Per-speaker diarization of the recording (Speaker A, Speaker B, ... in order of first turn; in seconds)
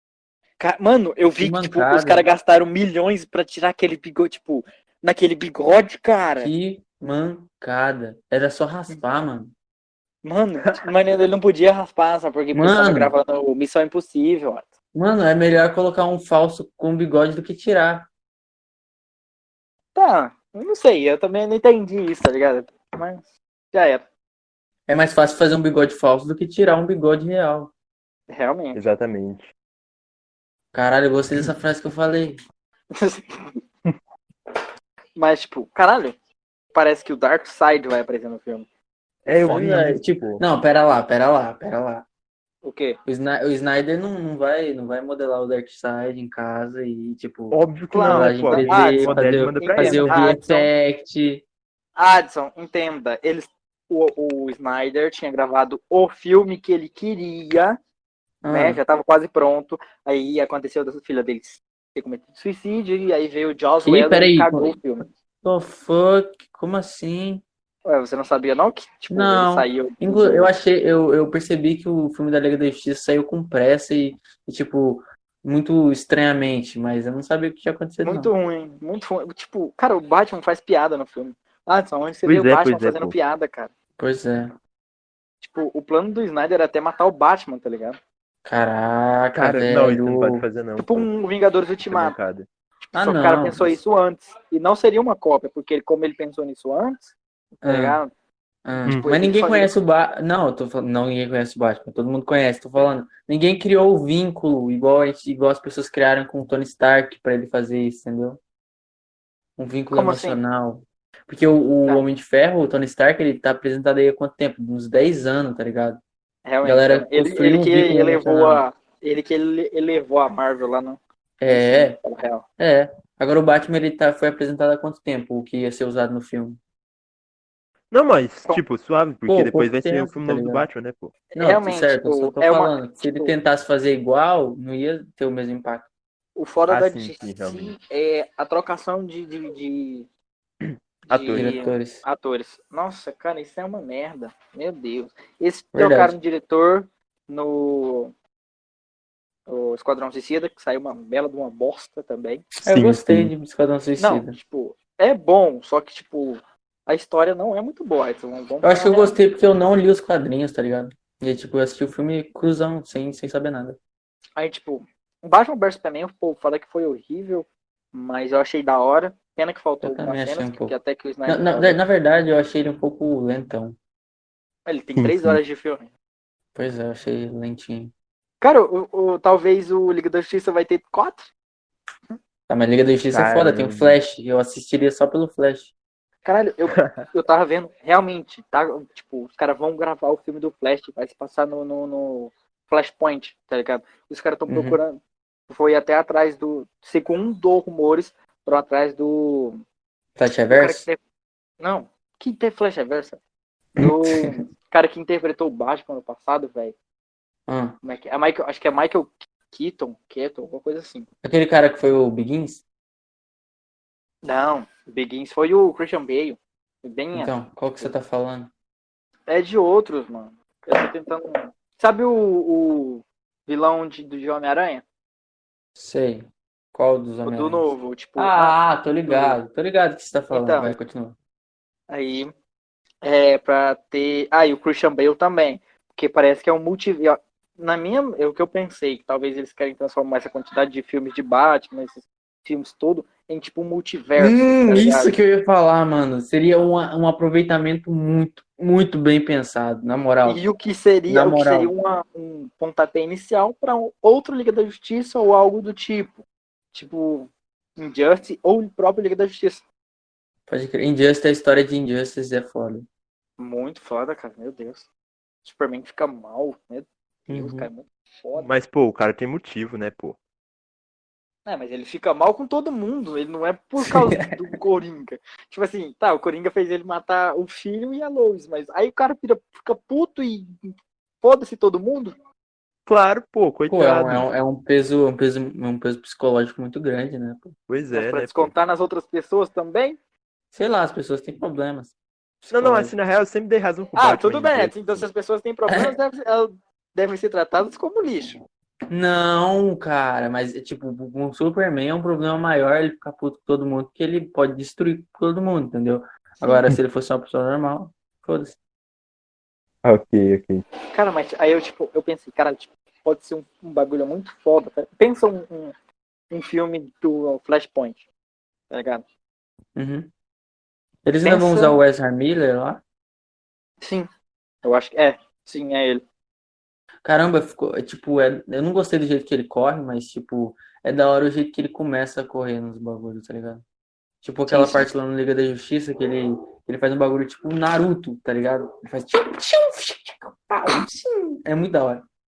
Speaker A: 0.6-6.5, 10.2-14.7, 19.9-24.0, 28.3-28.8, 32.9-33.6, 35.1-36.1, 36.7-38.7, 39.3-39.6, 42.6-43.0, 47.9-50.7, 52.0-57.8, 58.5-65.0, 67.8-70.5, 78.0-83.7, 85.4-88.0, 90.8-92.2, 92.9-98.1, 98.9-99.7, 109.9-110.4, 116.4-122.4, 131.3-133.3, 136.3-140.1, 141.1-148.1, 149.5-152.5, 154.0-159.2, 164.4-171.8, 174.7-175.9, 178.4-181.3, 186.2-199.6, 200.5-201.0, 201.6-203.2, 203.8-206.7, 207.8-211.1, 214.2-217.9, 219.3-224.8, 227.2-229.4, 230.3-230.8, 231.9-232.3, 233.0-245.1, 250.2-259.6, 263.4-264.9, 265.4-268.5, 271.4-282.1, 287.9-290.0, 293.9-298.4, 310.9-315.7, 316.3-318.0, 318.7-319.0, 321.2-321.8, 323.8-324.1, 324.6-326.0, 334.5-334.9
Speaker B: 1.4-2.2, 6.4-9.5, 12.5-13.1, 14.9-18.1, 24.9-27.7, 30.7-32.4, 39.4-42.0, 43.0-51.4, 58.4-58.8, 63.8-64.8, 65.4-67.4, 69.1-78.3, 84.0-84.5, 88.4-90.5, 92.9-93.8, 97.6-98.0, 98.6-108.4, 109.6-116.0, 116.6-118.6, 121.4-122.0, 122.6-126.6, 129.3-130.7, 131.3-135.9, 141.3-142.0, 145.7-146.1, 152.6-154.4, 158.6-163.8, 169.8-170.7, 171.2-173.8, 176.5-177.9, 182.5-185.7, 194.5-194.8, 200.2-200.8, 203.8-204.4, 207.5-207.8, 211.2-212.6, 217.1-218.5, 225.8-231.2, 244.2-250.4, 251.1-251.7, 260.5-262.9, 267.3-267.7, 273.8-274.3, 283.7-287.5, 290.5-292.9, 295.7-295.9, 298.9-308.6, 319.8-320.1, 321.1-322.8, 327.0-333.6, 334.2-342.0
Speaker C: 28.7-29.5, 39.2-40.4, 47.5-50.2, 82.2-83.1, 89.3-91.1, 91.8-92.5, 127.9-131.1, 136.7-137.7, 141.1-141.6, 152.6-153.3, 174.9-175.4, 183.1-184.0, 186.8-187.0, 268.4-270.2, 282.9-284.3, 287.7-288.5, 292.5-295.1, 309.8-310.6